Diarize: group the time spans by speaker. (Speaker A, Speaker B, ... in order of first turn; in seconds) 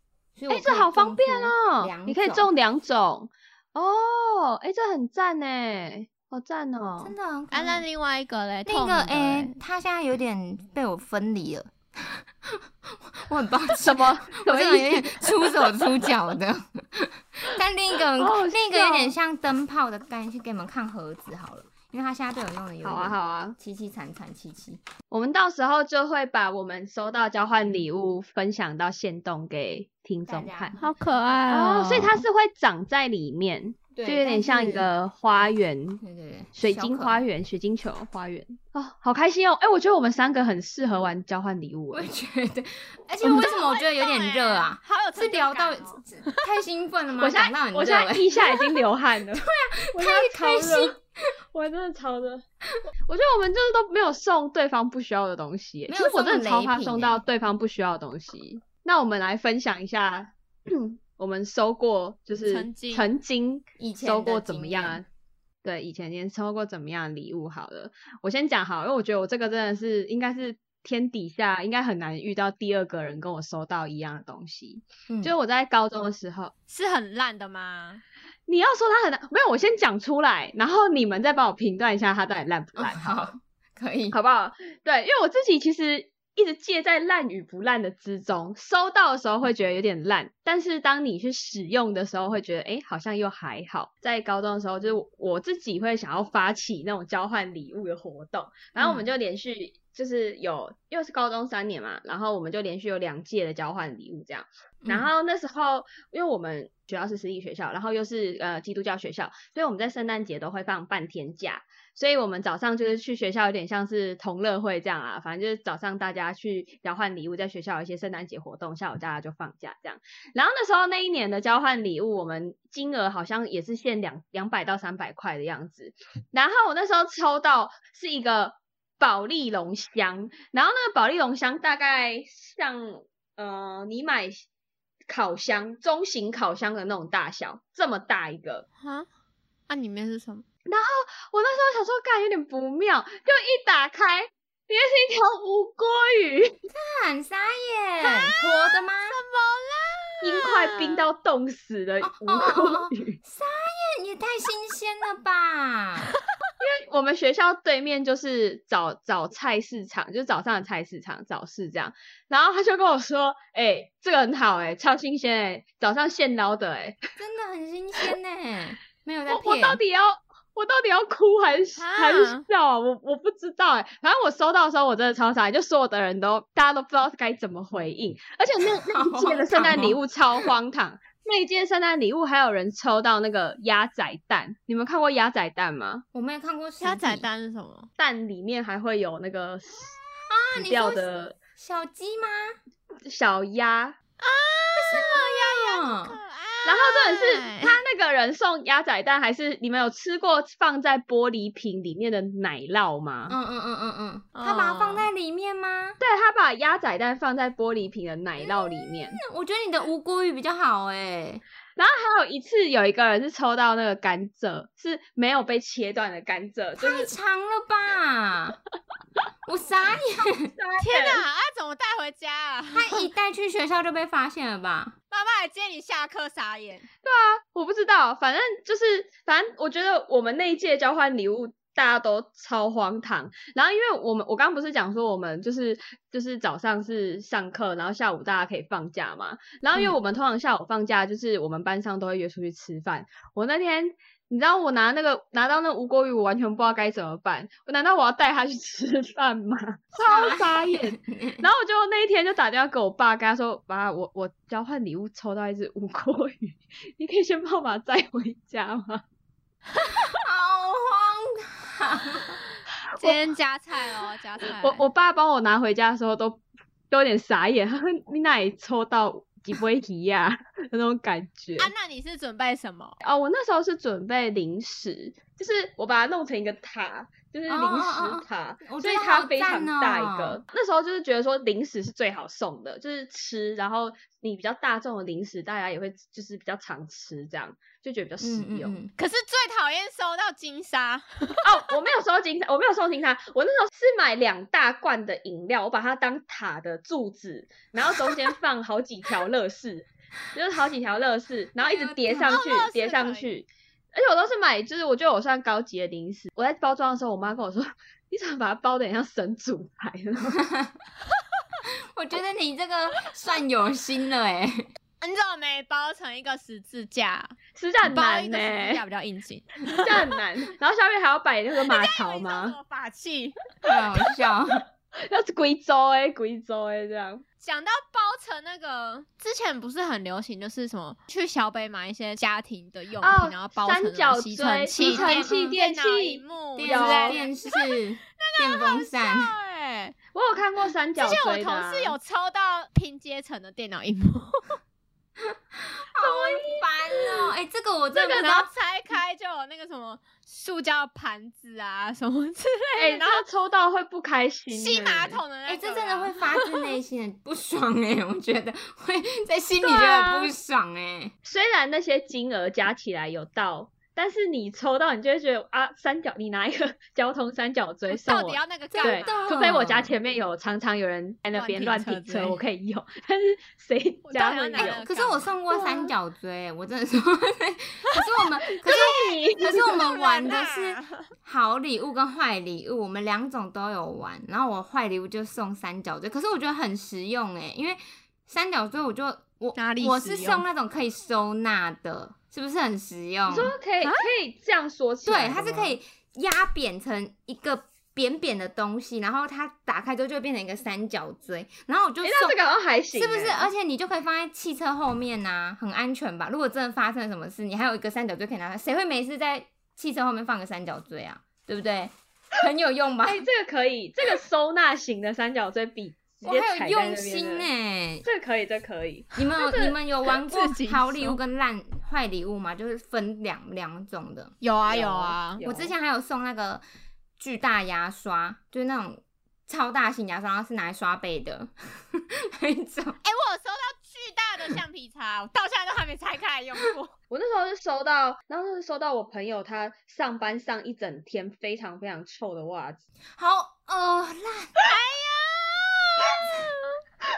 Speaker A: 0.4-2.5, 7.0-7.8, 8.7-24.8, 30.3-31.4, 33.9-34.9, 36.0-37.2, 41.9-51.0, 55.9-57.2, 63.8-65.0, 75.1-75.3, 82.8-84.2, 98.8-99.1, 104.8-105.1, 146.7-149.2, 152.0-156.1, 167.2-169.8, 178.6-180.5, 186.1-187.3, 190.3-191.1, 191.6-192.6, 194.8-196.2, 203.3-206.0, 208.4-211.4, 216.8-218.6, 219.5-220.5, 222.7-224.9, 250.0-251.5, 259.8-262.4, 277.5-280.4, 288.2-288.9, 301.7-302.4, 310.4-310.8, 311.9-314.7, 323.6-324.6, 334.8-335.6, 336.6-339.3, 345.2-348.5, 355.5-361.1, 368.7-369.9, 374.6-393.5, 395.1-402.4, 402.9-413.3, 416.2-418.1, 419.2-424.3, 425.4-426.6, 427.2-433.0, 443.2-444.5
Speaker B: 0.5-7.1, 13.7-15.8, 18.1-19.1, 22.8-23.6, 25.1-30.8, 31.5-36.0, 36.5-42.1, 47.2-51.0, 51.5-52.4, 53.1-65.0, 65.6-76.5, 78.5-83.3, 84.1-134.4, 135.1-138.7, 140.7-146.6, 150.2-153.2, 156.6-167.0, 169.3-186.0, 188.0-190.0, 190.6-191.4, 193.1-194.0, 196.7-203.4, 206.0-209.2, 211.8-217.1, 220.5-221.2, 227.0-259.0, 264.6-271.7, 273.0-288.8, 291.4-310.4, 317.6-318.8, 319.7-322.6, 325.1-327.2, 333.0-337.2, 340.1-342.0, 347.9-348.3, 352.8-355.2, 359.6-360.3, 361.2-374.8, 378.6-379.8, 393.3-395.8, 402.0-403.5, 413.0-417.5, 418.1-419.8, 424.7-425.7, 437.1-442.8
Speaker C: 7.5-9.6, 30.8-32.2, 43.2-46.4, 62.4-63.1, 76.7-78.0, 138.8-139.1, 139.7-140.4, 148.0-151.0, 171.8-172.4, 186.8-187.9, 194.2-197.8, 204.3-205.1, 220.8-223.1, 225.1-226.9, 263.0-264.8, 271.6-273.0, 289.0-291.7, 302.1-303.3, 315.0-320.1, 321.7-323.4, 327.4-340.0, 341.0-344.6, 348.1-353.2, 354.5-356.7, 367.9-369.4, 371.3-372.4, 374.1-375.8, 378.7-381.1, 389.6-390.5, 393.8-394.1, 420.2-421.2, 424.4-425.4, 433.0-436.9, 444.6-446.8